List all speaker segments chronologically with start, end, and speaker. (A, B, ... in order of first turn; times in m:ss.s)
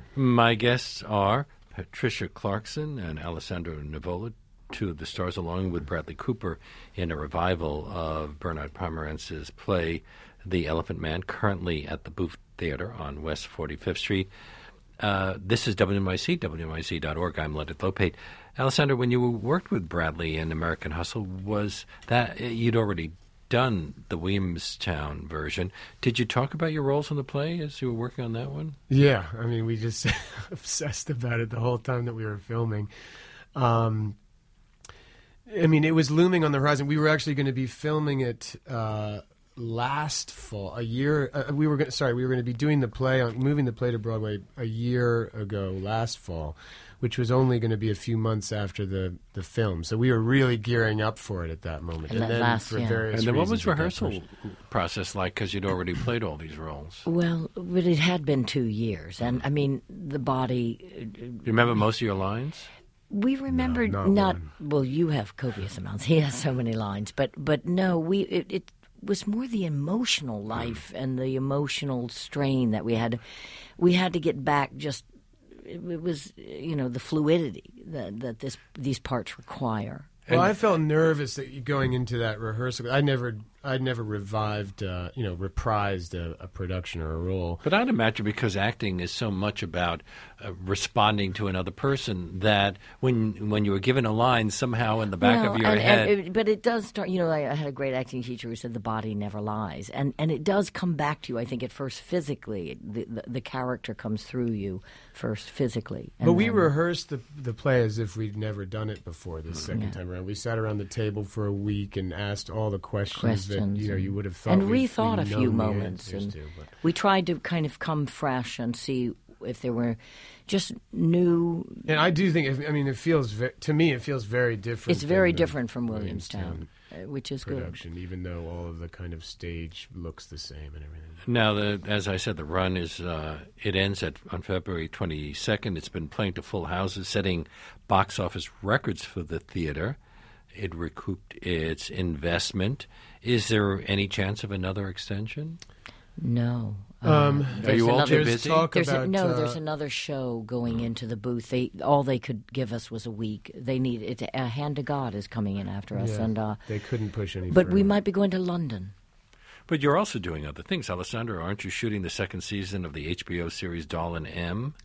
0:00.2-0:14.3 A
0:15.0-0:28.8 A
0:28.9-0:32.9 B
0:33.5-0:34.2 B
0:35.5-0:54.2 B
0:52.1-0:53.0 C
0:53.1-0:57.0 A
0:57.0-1:01.5 C
1:01.4-1:02.7 A
1:03.1-1:13.2 C
1:03.5-1:04.5 B
1:13.8-1:20.1 C
1:20.3-1:27.6 B
1:27.6-1:36.1 A
1:35.2-1:46.7 C
1:46.2-1:56.7 B
1:53.1-2:01.9 C
2:01.8-2:06.7 B
2:04.9-2:07.8 C
2:07.4-2:11.2 B
2:11.2-2:20.0 A
2:20.5-2:25.6 A
2:26.2-2:36.6 C
2:27.0-2:29.6 B
2:27.6-2:28.7 A
2:35.9-2:37.9 B
2:37.5-2:38.9 C
2:39.7-2:44.7 A